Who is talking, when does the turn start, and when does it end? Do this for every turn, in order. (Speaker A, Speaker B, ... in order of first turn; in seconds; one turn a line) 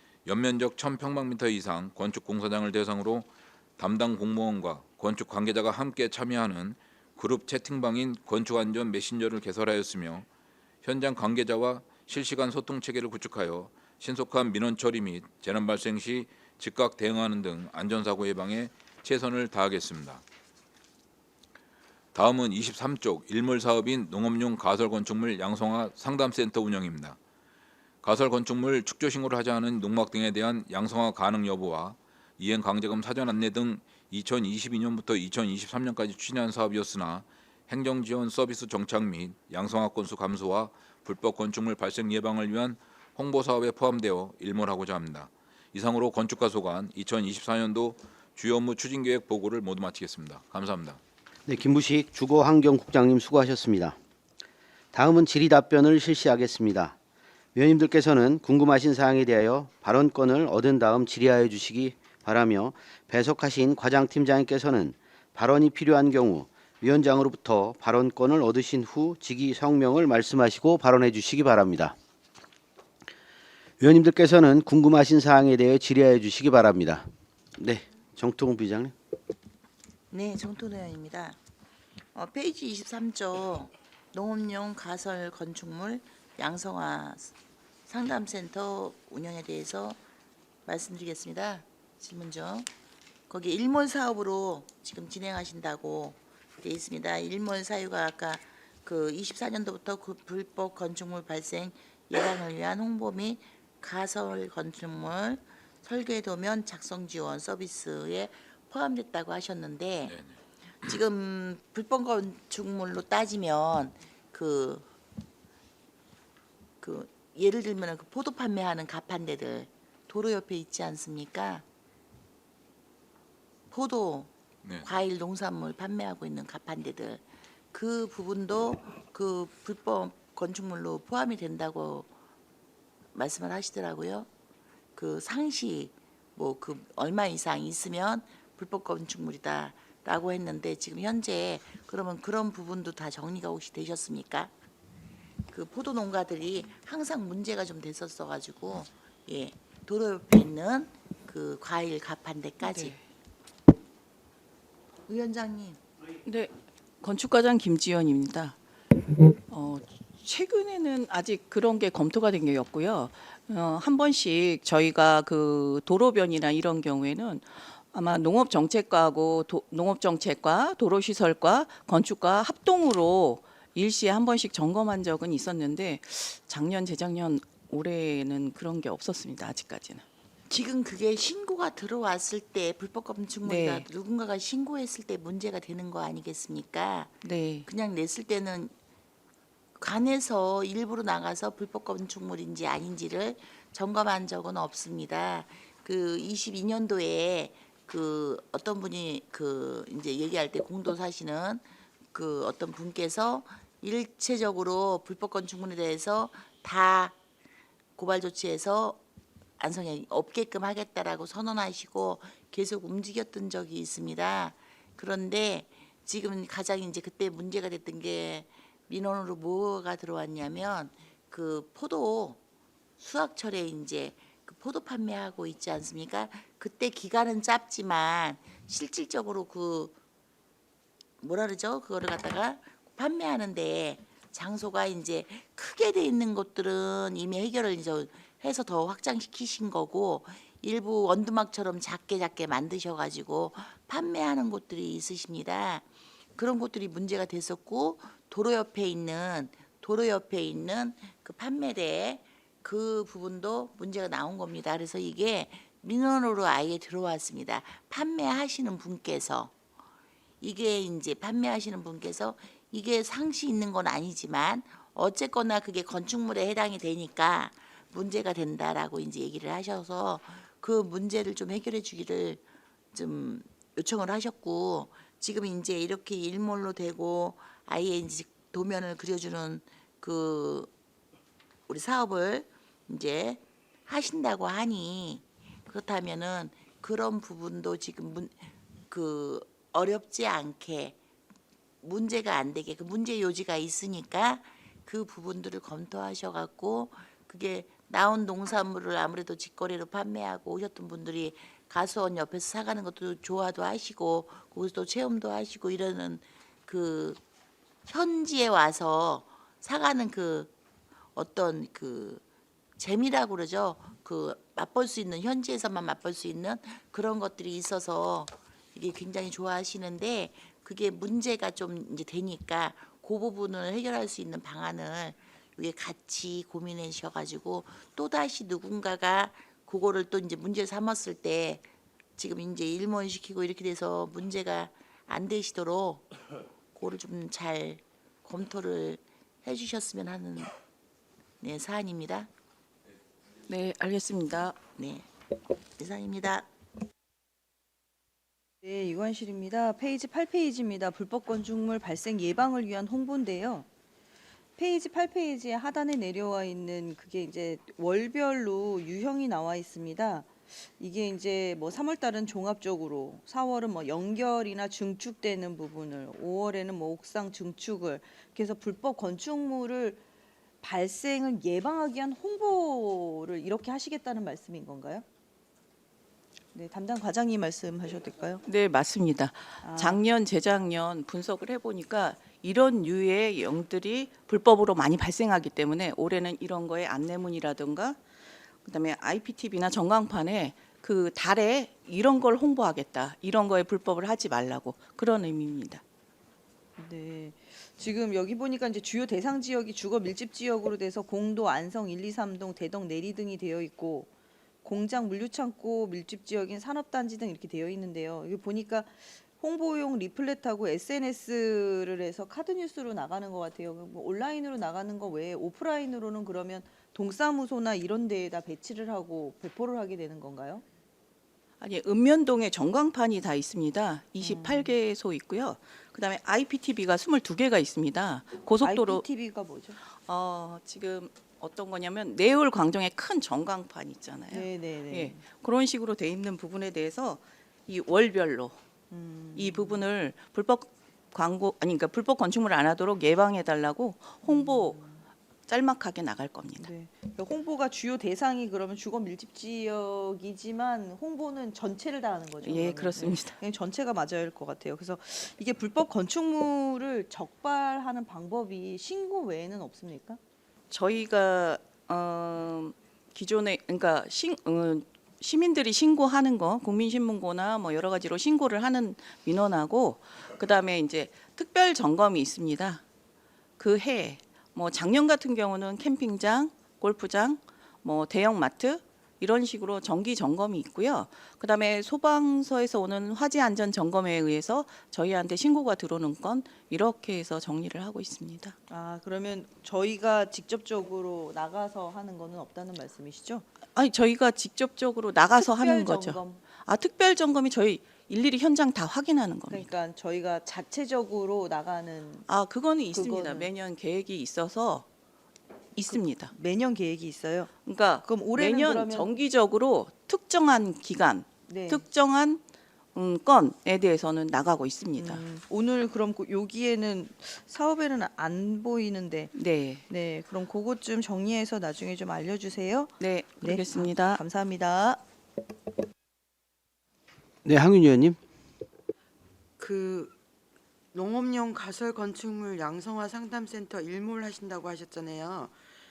Speaker A: 0.2-10.2
Speaker A: 10.8-20.2
Speaker A: 22.1-27.2
Speaker A: 28.0-51.0
Speaker B: 51.5-54.0
Speaker B: 54.9-57.0
Speaker B: 57.5-72.0
Speaker B: 73.8-78.9
Speaker C: 80.1-81.4
Speaker C: 82.1-87.3
Speaker C: 87.9-90.0
Speaker C: 90.7-92.7
Speaker C: 93.3-110.2
Speaker A: 110.0-110.3
Speaker C: 110.8-114.9
Speaker C: 116.8-121.6
Speaker C: 123.7-132.1
Speaker C: 133.1-134.3
Speaker C: 134.9-144.5
Speaker C: 145.5-152.9
Speaker D: 152.6-153.0
Speaker C: 155.1-155.8
Speaker D: 156.2-158.6
Speaker D: 159.5-180.0
Speaker C: 180.5-188.7
Speaker D: 183.4-183.9
Speaker D: 187.2-187.7
Speaker C: 189.8-207.2
Speaker C: 207.9-209.0
Speaker C: 209.6-222.4
Speaker C: 223.0-230.0
Speaker C: 231.2-259.5
Speaker C: 260.4-280.7
Speaker C: 281.7-291.0
Speaker C: 291.8-307.2
Speaker C: 307.9-310.5
Speaker C: 311.1-312.2
Speaker C: 312.8-336.1
Speaker C: 336.7-340.5
Speaker C: 341.4-342.3
Speaker D: 343.5-344.6
Speaker C: 344.8-345.1
Speaker C: 345.8-346.5
Speaker E: 348.6-353.7
Speaker E: 354.6-370.0
Speaker E: 370.6-375.0
Speaker E: 376.5-378.4
Speaker D: 378.4-388.0
Speaker E: 379.6-380.0
Speaker D: 388.6-395.8
Speaker E: 396.8-404.1
Speaker E: 404.6-420.6
Speaker D: 421.6-429.0
Speaker E: 424.2-424.7
Speaker E: 428.6-429.8
Speaker D: 429.9-438.6
Speaker E: 434.3-435.2
Speaker E: 438.9-439.8
Speaker D: 439.3-444.8
Speaker E: 444.2-445.0
Speaker D: 445.5-446.7
Speaker E: 446.6-460.2
Speaker D: 452.4-453.4
Speaker D: 460.7-472.8
Speaker D: 473.6-488.6
Speaker E: 488.7-493.4
Speaker D: 493.7-499.7
Speaker E: 495.4-496.4
Speaker E: 499.5-502.2
Speaker D: 502.3-504.8
Speaker E: 502.9-503.5
Speaker D: 505.8-506.3
Speaker E: 505.9-509.1
Speaker D: 507.6-512.4
Speaker E: 511.4-511.8
Speaker D: 512.9-515.2
Speaker E: 515.0-519.3
Speaker D: 519.3-519.8
Speaker E: 519.9-525.0
Speaker D: 523.0-524.2
Speaker B: 527.4-528.2
Speaker F: 529.6-530.1
Speaker F: 530.9-535.5